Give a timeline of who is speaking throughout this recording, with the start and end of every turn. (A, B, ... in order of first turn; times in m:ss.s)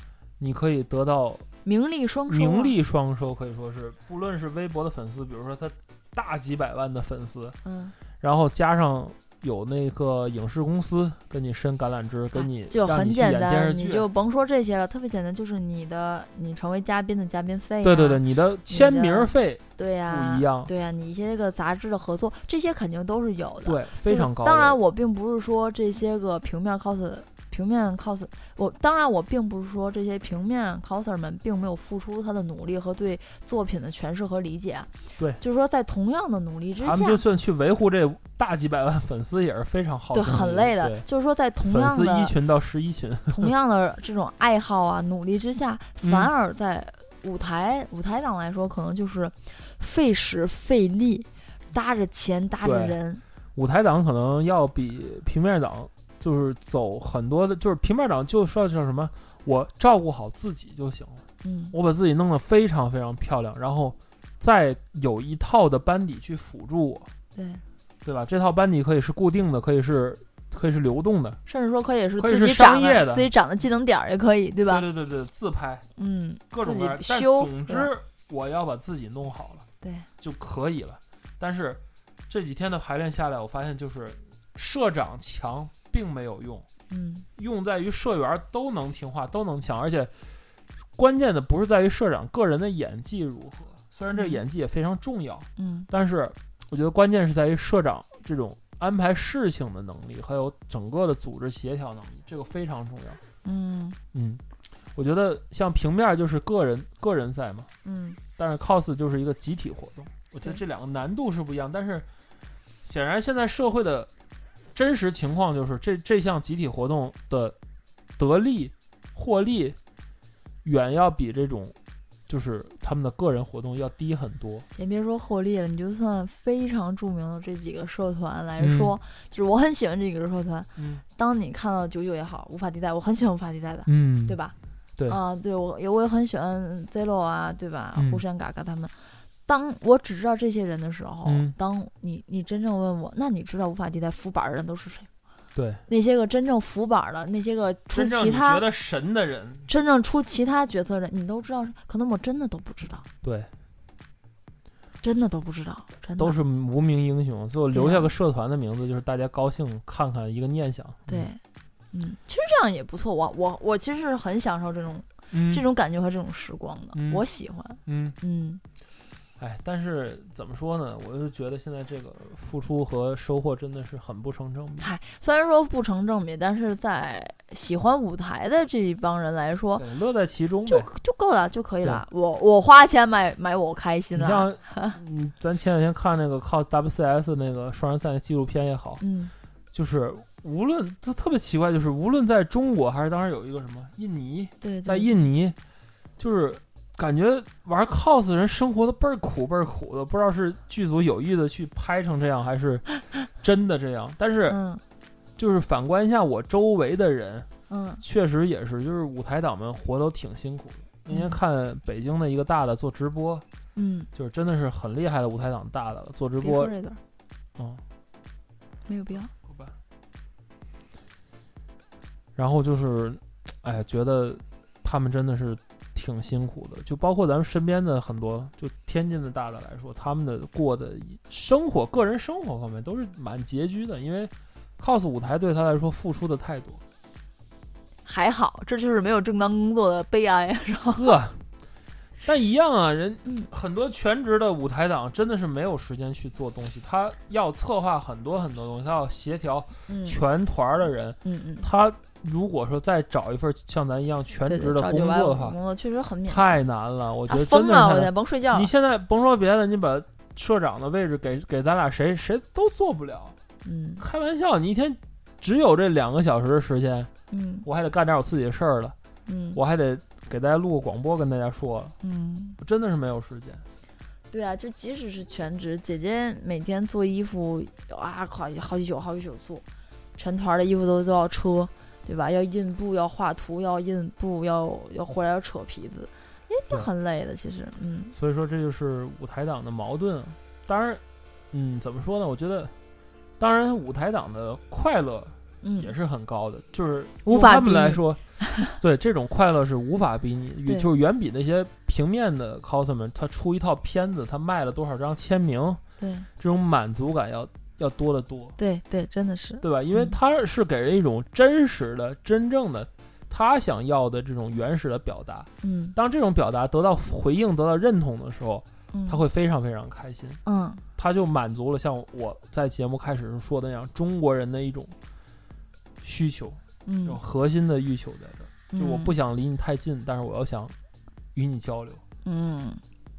0:00.4-0:01.5 A
0:01.6-0:02.8 B
0:02.3-0:07.6 A
0:07.6-0:08.0 B
0:08.2-0:14.1 A
0:12.3-0:37.2 B
0:17.8-0:20.7 A
0:23.6-0:24.8 A
0:36.8-0:41.1 A
0:40.1-0:42.3 B
0:41.6-0:43.5 A
0:43.3-0:53.2 B
0:46.0-0:46.3 A
0:52.6-0:53.0 A
0:53.6-1:07.1 A
1:01.4-1:01.7 B
1:07.4-1:07.6 B
1:08.0-1:11.4 A
1:11.5-1:14.8 B
1:12.2-1:13.3 A
1:14.7-1:15.9 A
1:16.0-1:17.9 B
1:16.5-1:19.7 A
1:19.8-1:20.1 B
1:20.2-1:26.7 A
1:26.9-1:27.3 B
1:27.4-1:30.1 A
1:31.0-1:43.2 A
1:34.1-1:34.4 B
1:35.6-1:35.9 B
1:43.4-1:44.0 B
1:44.1-1:44.4 A
1:45.0-1:47.7 A
1:47.8-1:48.2 B
1:48.4-1:52.1 A
1:52.8-1:54.1 A
1:54.7-1:57.6 A
1:58.2-1:59.8 A
2:00.6-2:01.8 A
2:02.3-2:04.7 A
2:04.7-2:14.6 B
2:08.6-2:09.0 A
2:10.8-2:11.0 A
2:13.9-2:14.4 A
2:15.1-2:18.9 B
2:18.0-2:18.2 A
2:19.5-2:25.1 B
2:21.3-2:21.6 A
2:25.6-2:25.8 A
2:25.9-2:28.6 B
2:27.9-2:29.7 A
2:29.7-2:33.0 B
2:33.2-2:33.5 A
2:35.0-2:36.4 B
2:36.2-2:41.3 A
2:37.7-2:38.1 B
2:41.1-2:41.4 B
2:41.9-2:48.6 B
2:45.3-2:45.6 A
2:47.0-2:47.2 A
2:47.9-2:48.2 A
2:49.4-2:54.9 A
2:54.8-2:59.9 B
2:59.8-3:00.9 A
3:00.7-3:05.0 B
3:04.1-3:09.0 A
3:09.0-3:09.3 B
3:09.7-3:15.6 A
3:14.6-3:15.2 B
3:16.2-3:24.6 A
3:24.5-3:24.8 B
3:25.4-3:27.5 A
3:27.7-3:28.0 B
3:28.0-3:33.4 A
3:31.1-3:31.4 B
3:33.8-3:34.1 B
3:34.1-3:36.8 A
3:36.4-3:37.0 B
3:37.6-3:37.8 A
3:38.9-3:39.3 B
3:39.5-3:39.7 A
3:42.4-3:56.8 A
3:58.0-4:01.1 B
4:01.0-4:01.4 A
4:02.2-4:15.6 A
4:09.9-4:10.2 B
4:11.2-4:11.7 B
4:14.5-4:16.6 B
4:16.3-4:23.4 A
4:17.3-4:18.7 B
4:23.6-4:24.0 B
4:24.0-4:27.1 A
4:27.3-4:27.7 B
4:27.6-4:29.0 A
4:29.3-4:29.6 B
4:29.6-4:32.0 A
4:32.0-4:32.6 B
4:32.6-4:33.6 A
4:34.3-4:39.6 B
4:40.2-4:48.2 B
4:48.1-4:52.7 A
4:53.4-4:58.2 A
4:55.6-4:55.9 B
4:57.2-4:58.7 B
4:58.8-5:05.8 A
5:06.0-5:06.3 B
5:06.4-5:08.6 A
5:08.6-5:10.2 B
5:09.6-5:20.4 A
5:15.6-5:16.0 B
5:18.9-5:19.2 B
5:20.4-5:20.8 B
5:21.0-5:24.9 A
5:26.0-5:30.8 A
5:26.8-5:27.2 B
5:28.7-5:29.2 B
5:31.4-5:32.0 A
5:32.2-5:32.8 B